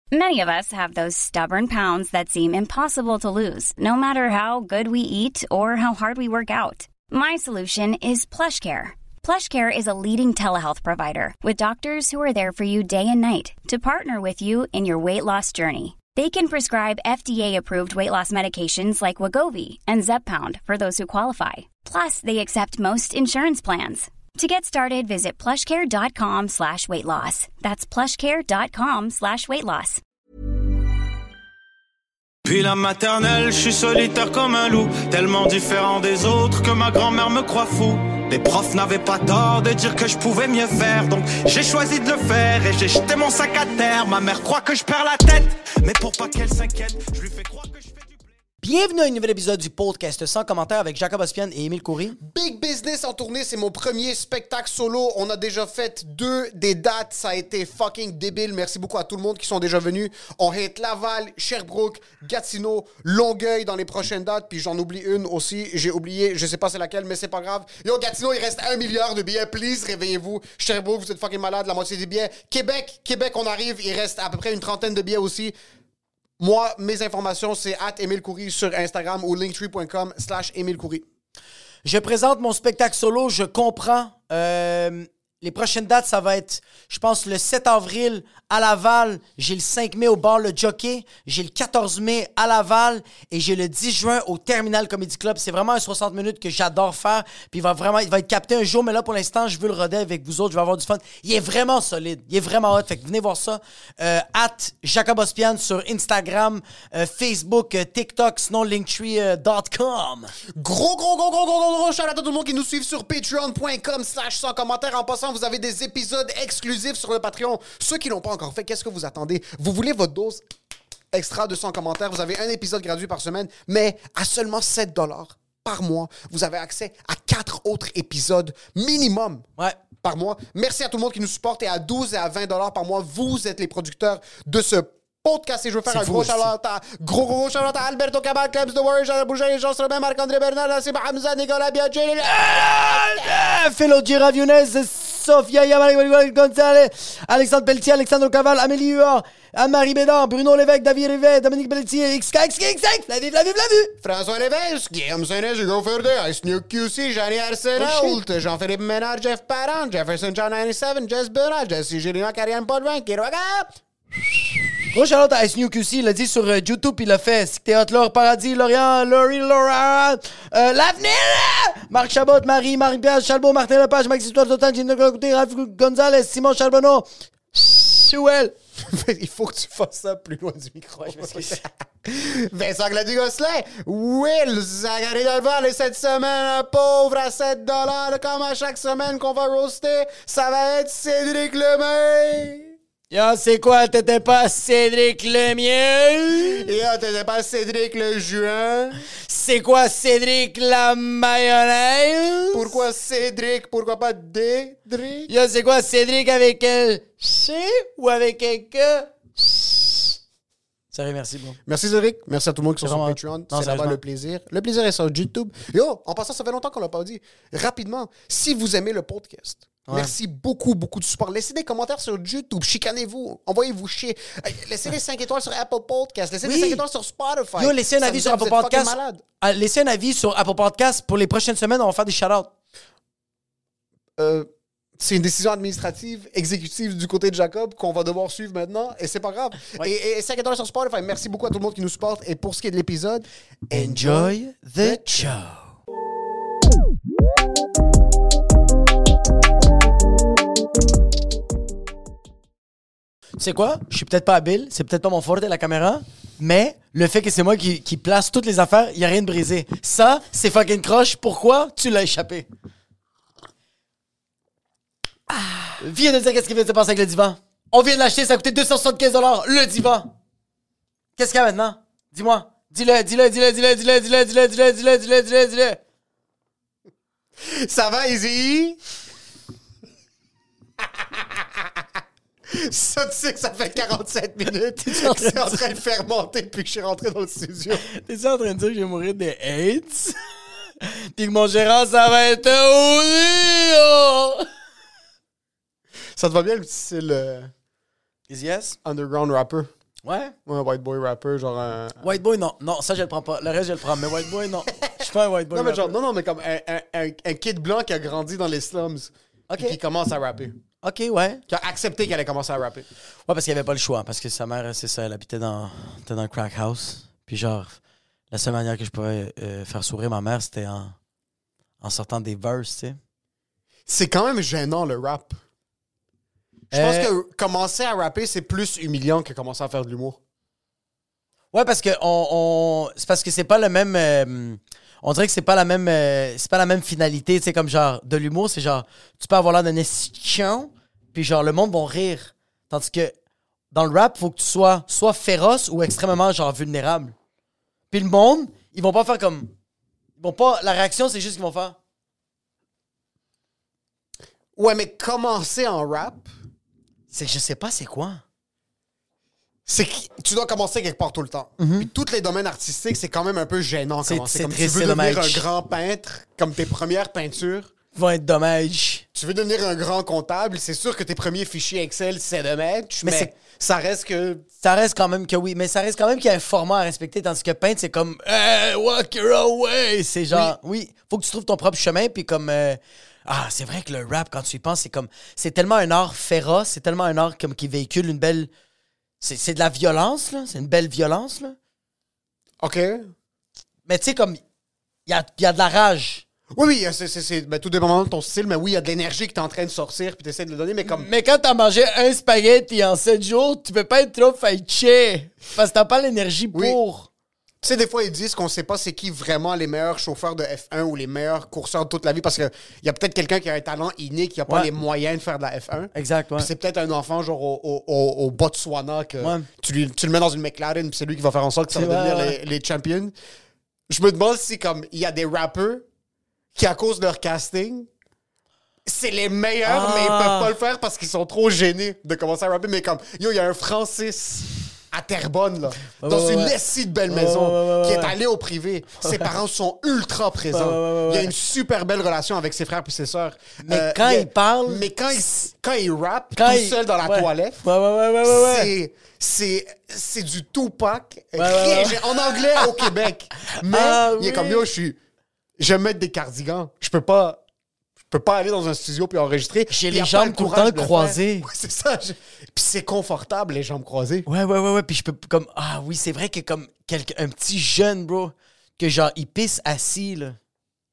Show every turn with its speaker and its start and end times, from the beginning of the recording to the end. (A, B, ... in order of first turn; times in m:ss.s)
0:00.1-0:30.0 A
0:32.4-0:48.2 B
0:48.6-0:52.2 C
0:52.2-1:15.5 D
1:16.4-1:21.0 D
1:21.8-1:50.3 C
1:50.5-2:00.4 D
2:01.1-2:09.5 D
2:10.0-2:23.3 D
2:15.9-2:16.5 C
2:22.3-2:33.9 C
2:34.0-2:43.7 D
2:37.8-2:38.2 C
2:44.9-2:58.5 C
2:58.8-3:12.7 D
3:01.0-3:01.6 C
3:13.1-3:16.6 C
3:16.4-3:19.0 D
3:19.2-3:22.8 C
3:22.5-3:25.3 D
3:25.3-3:30.1 C
3:30.9-3:31.6 C
3:31.6-3:49.2 D
3:32.8-3:34.0 C
3:39.9-3:40.1 C
3:46.4-3:46.8 C
3:47.6-3:52.5 C
3:54.2-4:05.3 D
4:03.7-4:05.7 C
4:13.4-4:22.5 C
4:25.7-4:30.1 C
4:31.2-4:35.8 C
4:37.4-4:38.8 D
4:40.9-4:41.7 D
4:42.5-4:47.8 D
4:44.8-4:45.7 C
4:47.8-4:50.2 C
4:50.8-4:54.5 C
4:56.1-4:57.5 D
4:58.3-4:58.8 C
4:58.8-4:59.7 D
5:00.0-5:00.3 C
5:00.4-5:02.0 D
5:02.0-5:06.0 C
5:05.5-5:10.6 D
5:09.5-5:09.8 C
5:10.8-5:11.4 C
5:11.5-5:12.9 D
5:13.3-5:17.8 C
5:18.3-5:20.9 C
5:21.8-5:23.0 C
5:23.9-5:25.4 D
5:26.7-5:27.1 C
5:26.7-5:30.2 D
5:31.5-5:43.1 C
5:43.7-5:47.1 C
5:47.9-5:49.5 C
5:50.2-5:51.8 C
5:54.6-5:56.3 D
5:57.1-5:58.2 C
5:59.6-6:07.7 D
6:01.6-6:01.9 C
6:04.0-6:05.5 C
6:07.9-6:09.0 C
6:09.1-6:14.4 D
6:13.0-6:13.3 C
6:14.6-6:28.5 C
6:20.3-6:20.6 D
6:29.2-6:31.6 C
6:32.6-6:33.1 D
6:33.9-6:34.4 C
6:35.0-6:36.2 C
6:36.5-6:41.1 D
6:40.8-6:47.1 C
6:46.5-6:46.8 D
6:47.6-7:03.1 D
6:55.9-6:56.5 C
6:59.2-6:59.5 C
7:01.7-7:02.3 C
7:03.9-7:05.8 D
7:06.5-7:07.9 D
7:08.8-7:27.6 D
7:09.6-7:10.5 C
7:15.8-7:16.6 C
7:17.1-7:18.2 C
7:19.0-7:19.3 C
7:20.5-7:21.3 C
7:23.6-7:24.9 C
7:26.3-7:28.7 C
7:28.2-7:35.0 D
7:31.4-7:32.9 C
7:33.6-7:34.7 C
7:35.6-7:37.4 D
7:38.0-7:44.3 D
7:39.7-7:41.5 C
7:44.2-7:50.4 C